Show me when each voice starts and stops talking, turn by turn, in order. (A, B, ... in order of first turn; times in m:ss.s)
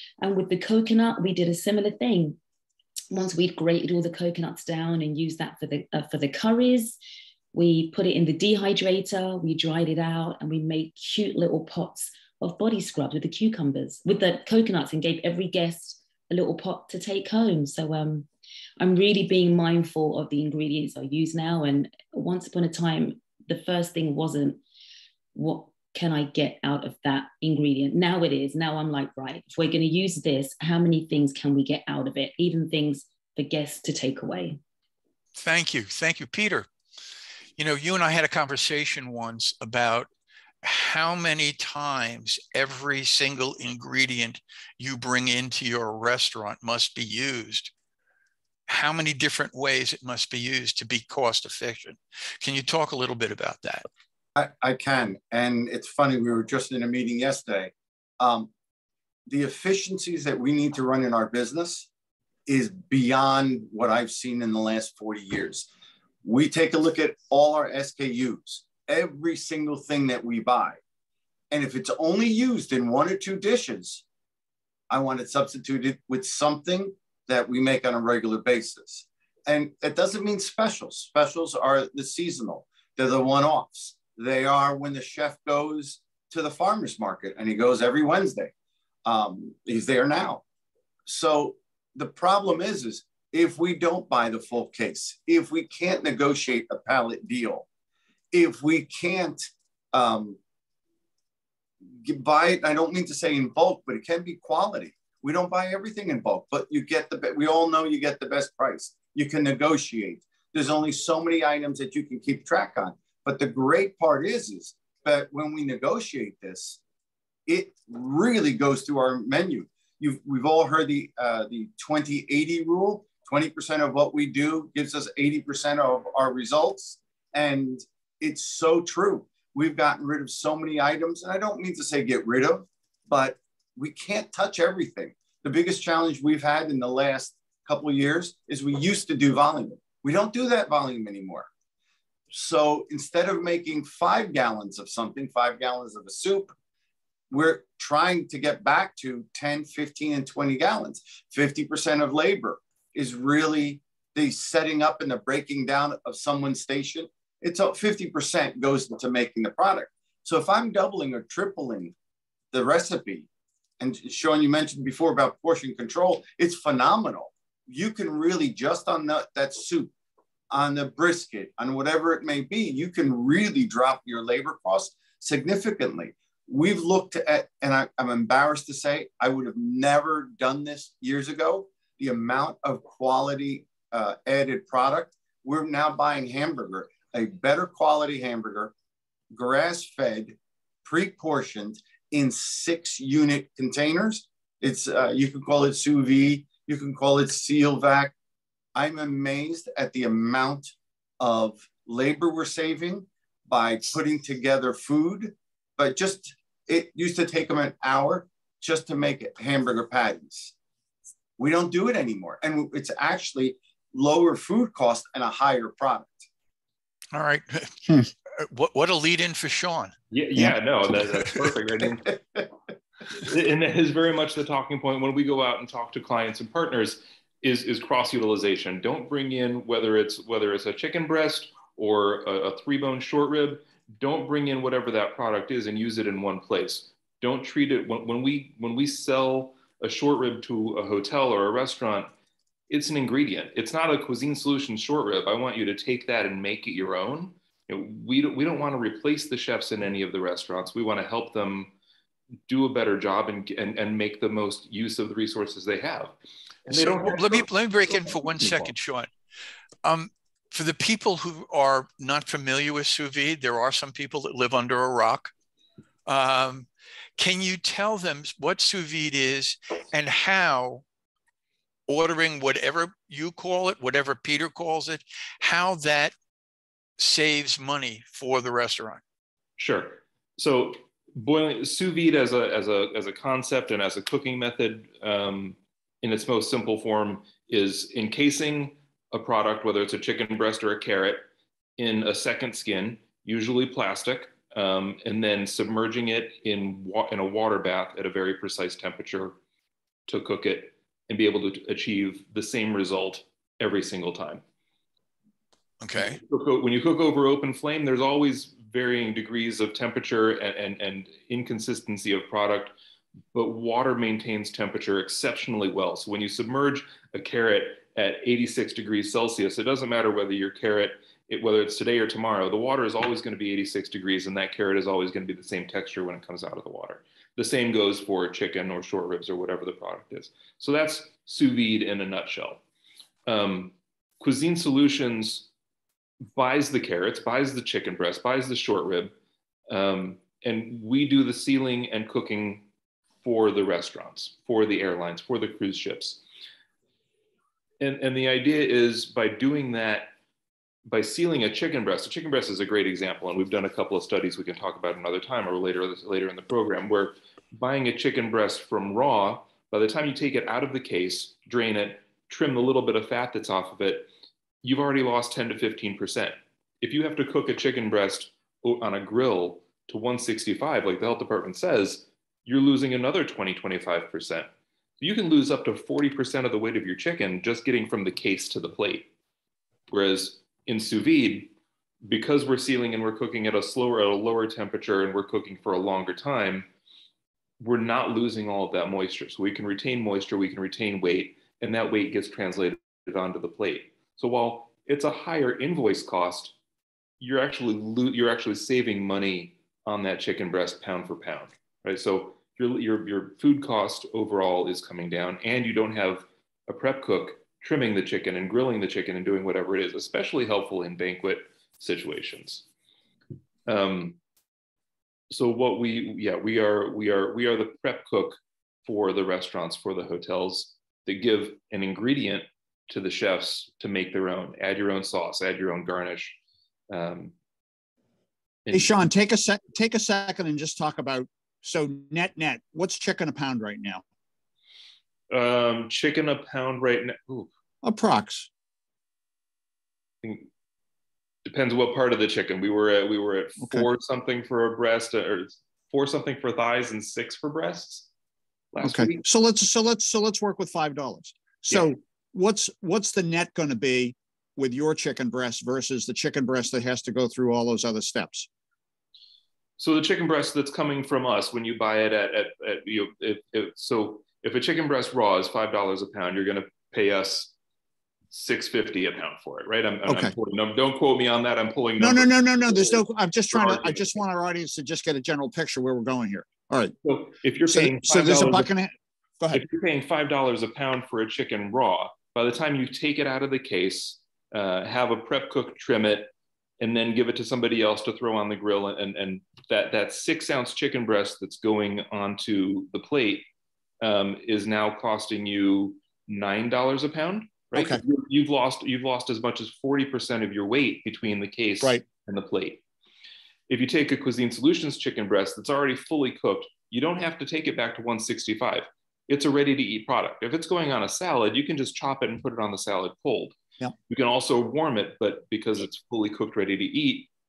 0:00.2-0:02.4 A
0:03.1-0:07.0 A
0:07.5-0:18.3 A
0:18.8-0:24.6 A
0:25.4-0:34.6 A
0:35.4-0:36.7 B
0:37.6-0:40.1 B
0:40.6-0:47.7 B
0:48.7-0:53.8 B
0:54.4-0:58.5 C
0:59.3-1:01.9 C
1:02.5-1:05.7 C
1:06.2-1:10.8 C
1:11.5-1:14.0 C
1:14.9-1:28.5 C
1:29.0-1:30.4 C
1:31.1-1:37.7 C
1:38.3-1:40.4 C
1:42.0-1:56.8 C
1:57.5-2:21.5 C
2:22.3-2:26.5 C
2:27.3-2:41.9 C
2:42.5-2:43.3 C
2:43.8-2:49.9 C
2:50.5-3:08.7 C
3:09.3-3:18.1 C
3:18.8-3:30.5 C
3:31.4-3:36.3 C
3:37.1-3:39.9 B
3:40.1-3:42.4 D
3:43.1-4:02.1 D
4:02.7-4:11.7 D
4:12.5-4:16.2 D
4:16.7-4:18.7 D
4:16.7-4:19.1 B
4:19.8-4:25.3 B
4:26.1-4:30.8 B
4:31.9-4:36.1 B
4:37.0-4:39.0 B
4:39.6-4:51.3 D
4:51.8-4:59.4 D
5:00.1-5:04.4 D
5:05.8-5:06.2 B
5:06.0-5:12.7 D
5:13.3-5:32.6 D
5:33.3-5:35.5 D
5:36.3-5:39.1 D
5:39.7-5:42.7 D
5:43.2-5:46.2 D
5:47.8-5:50.1 D
5:50.8-6:04.1 D
6:04.6-6:19.1 D
6:19.9-6:21.5 D
6:22.0-6:26.7 D
6:27.6-6:36.6 D
6:37.2-6:52.7 D
6:53.7-6:54.2 D
6:55.3-7:06.4 D
7:06.9-7:07.3 D
7:08.7-7:08.9 D
7:08.7-7:14.0 E
7:15.3-7:17.5 D
7:17.8-7:18.5 E
7:20.2-7:20.5 D
7:21.4-7:28.1 D
7:28.7-7:29.2 D
7:28.8-7:38.5 E
7:39.8-7:47.5 D
7:48.3-7:54.2 D
7:50.1-7:50.3 E
7:52.0-7:56.9 E
7:57.0-7:58.7 D
7:57.7-7:59.6 E
7:59.5-8:13.5 D
8:14.0-8:22.8 D
8:17.7-8:18.0 E
8:23.7-8:33.6 D
8:34.1-8:37.3 D